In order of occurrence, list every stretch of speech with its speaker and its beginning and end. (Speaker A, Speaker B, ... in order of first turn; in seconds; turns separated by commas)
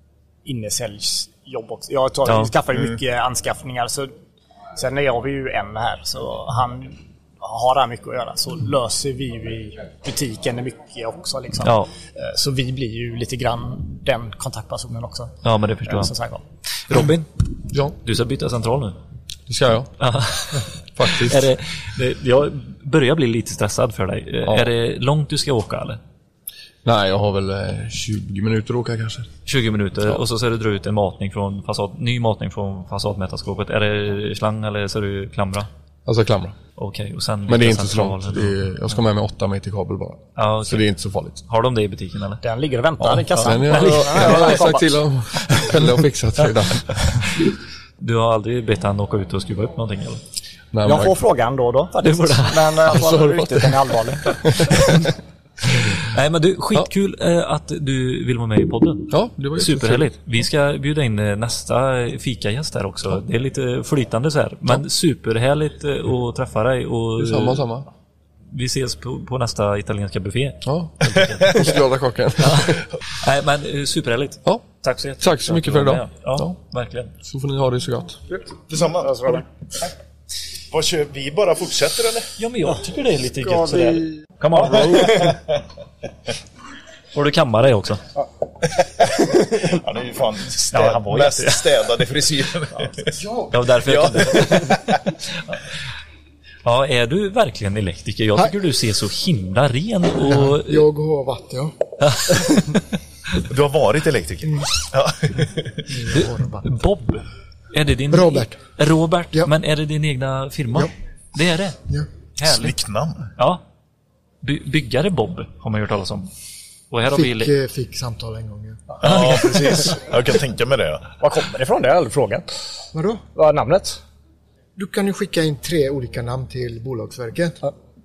Speaker A: 0.4-4.1, Speaker B: 2.3-2.5, Speaker A: 4.8-15.3, Speaker B: 11.6-11.9, Speaker B: 15.4-16.1, Speaker A: 15.9-16.4, Speaker B: 16.9-17.3, Speaker C: 17.7-18.0, Speaker B: 18.0-19.0, Speaker C: 19.5-19.9, Speaker B: 20.0-26.0, Speaker C: 21.0-21.5, Speaker C: 26.9-29.3, Speaker B: 29.5-35.7, Speaker C: 36.1-36.6, Speaker B: 36.8-38.6, Speaker C: 37.5-41.4, Speaker B: 40.4-40.8, Speaker B: 41.5-42.4, Speaker A: 42.4-45.8, Speaker C: 43.3-47.5, Speaker B: 48.0-50.2, Speaker C: 50.7-51.2, Speaker A: 50.8-54.9, Speaker B: 52.0-52.9, Speaker C: 52.9-53.8, Speaker C: 54.5-54.7, Speaker B: 56.0-67.7, Speaker C: 59.1-60.1, Speaker C: 67.2-67.9, Speaker B: 68.5-71.6, Speaker C: 70.6-72.8, Speaker B: 72.4-77.1, Speaker C: 75.2-76.6, Speaker C: 77.2-78.2, Speaker A: 78.3-79.4, Speaker D: 78.7-79.4, Speaker D: 80.7-82.3, Speaker B: 82.4-85.4, Speaker A: 82.7-84.8, Speaker D: 84.8-85.5, Speaker B: 87.1-88.0, Speaker D: 89.2-93.1, Speaker B: 90.7-91.6, Speaker E: 93.2-93.5, Speaker B: 93.5-94.9, Speaker D: 93.8-95.0, Speaker B: 96.7-100.9, Speaker E: 100.2-101.8, Speaker B: 102.0-103.4, Speaker D: 103.4-105.8, Speaker E: 105.9-106.8, Speaker B: 106.1-111.8, Speaker E: 108.1-108.6, Speaker B: 112.4-112.7, Speaker D: 112.4-113.2, Speaker B: 113.4-113.6, Speaker B: 114.4-116.3, Speaker B: 116.9-117.5, Speaker E: 117.1-119.1, Speaker D: 119.0-121.1, Speaker B: 119.0-119.7, Speaker A: 121.2-122.5, Speaker E: 122.9-123.2, Speaker A: 123.3-124.0, Speaker E: 124.8-127.7